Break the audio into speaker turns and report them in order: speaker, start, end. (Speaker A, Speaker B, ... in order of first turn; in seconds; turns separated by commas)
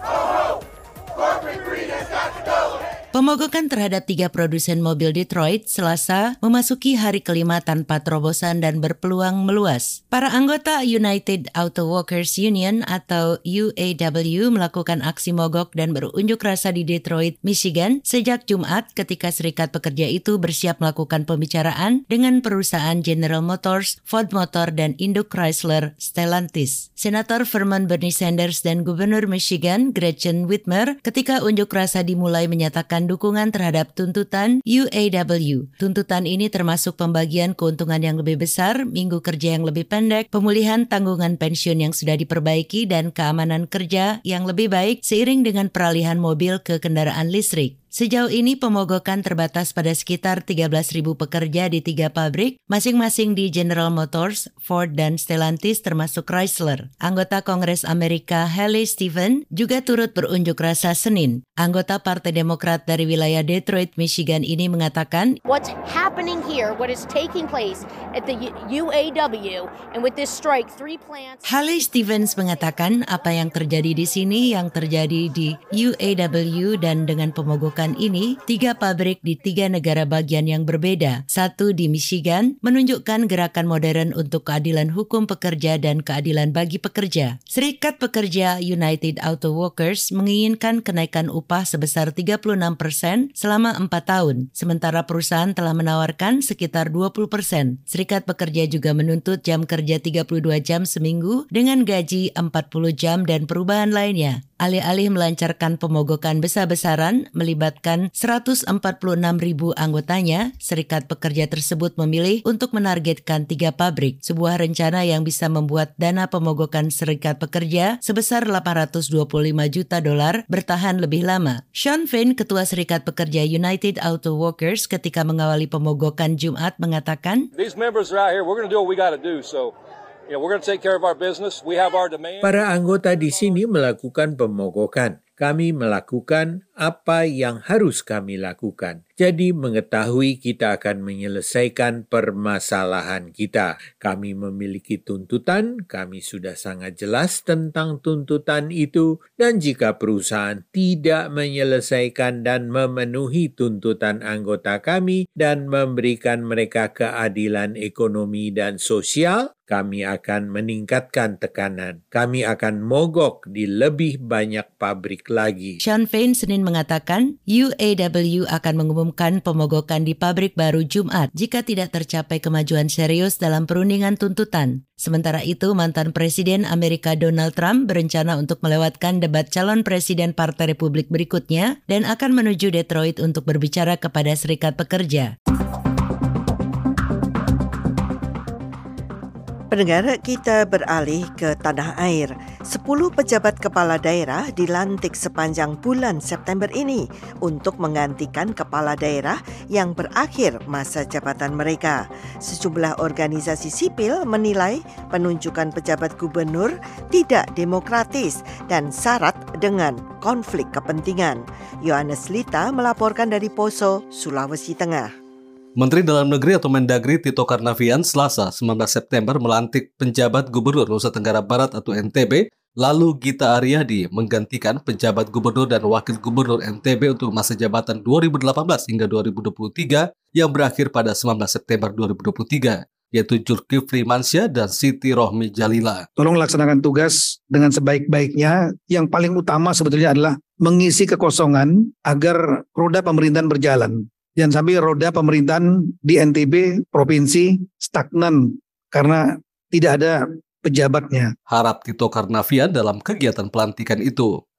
Speaker A: 3.1-65.4, Speaker B: 65.5-71.4, Speaker A: 71.5-127.5, Speaker C: 127.5-129.7, Speaker C: 130.3-133.6, Speaker D: 132.4-165.8, Speaker A: 165.8-185.3, Speaker E: 189.7-215.1, Speaker F: 215.8-236.1, Speaker G: 236.2-251.3, Speaker F: 251.5-254.3